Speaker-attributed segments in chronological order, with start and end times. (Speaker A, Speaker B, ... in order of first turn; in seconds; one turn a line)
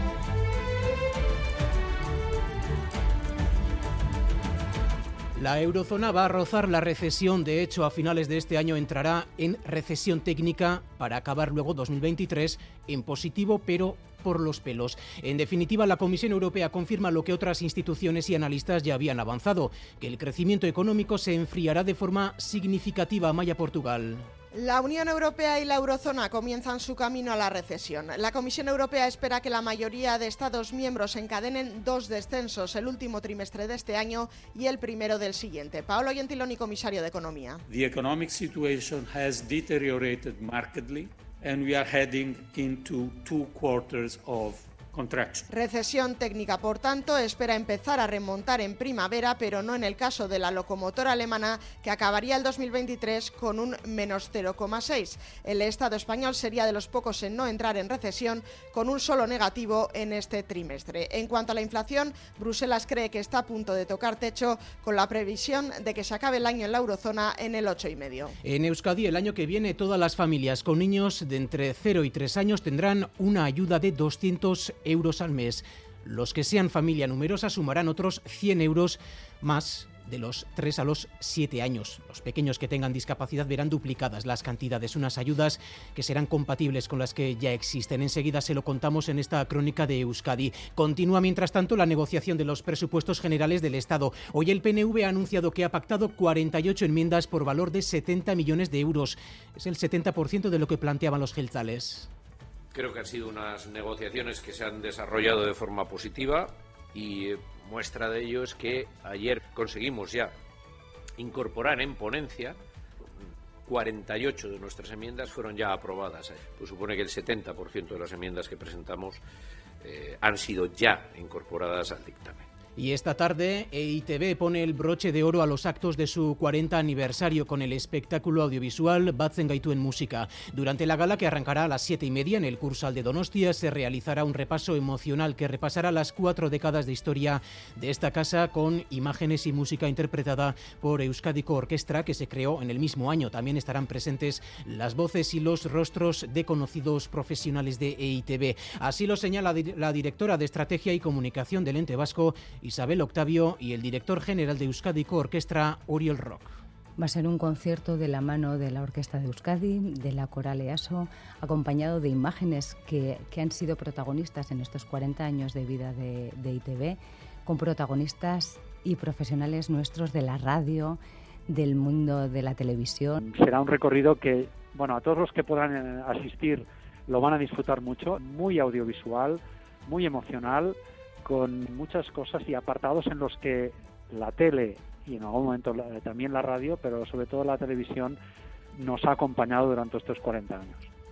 Speaker A: 5.3-24.3
Speaker B: 24.5-37.6
Speaker C: 37.7-45.4
Speaker B: 45.5-68.3
Speaker A: 68.4-102.1
Speaker D: 102.7-110.3
Speaker D: 111.2-112.6
Speaker D: 113.6-119.2
Speaker D: 119.8-122.4
Speaker A: 122.8-156.6
Speaker E: 157.0-173.2
Speaker F: 173.2-188.2
Speaker F: 188.7-190.9